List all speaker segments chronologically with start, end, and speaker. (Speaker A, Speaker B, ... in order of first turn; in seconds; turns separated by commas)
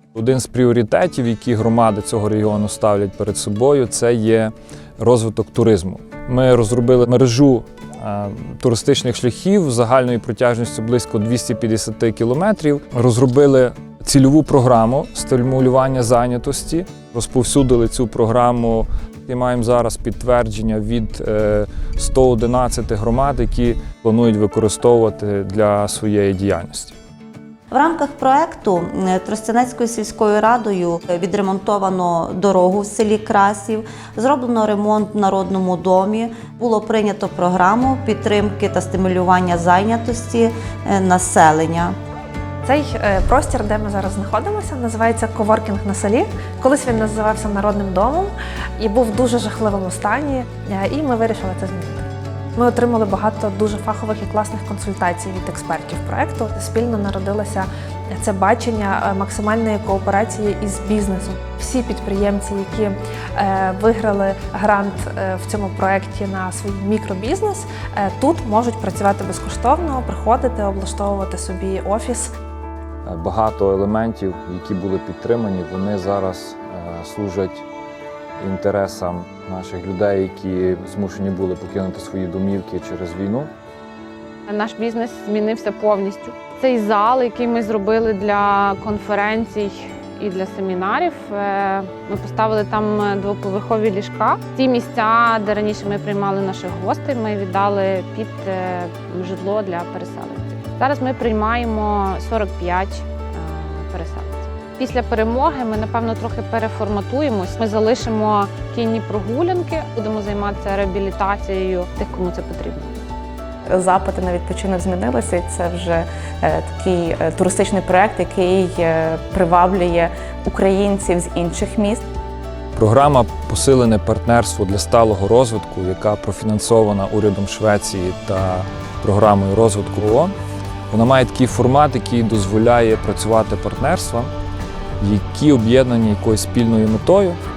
Speaker A: 0.1-26.9, Speaker B: 27.7-42.0, Speaker C: 42.6-72.3, Speaker A: 73.0-77.7, Speaker A: 78.4-83.5, Speaker D: 84.5-113.0, Speaker E: 113.7-122.0, Speaker A: 122.8-130.3, Speaker A: 130.9-134.3, Speaker A: 135.0-137.4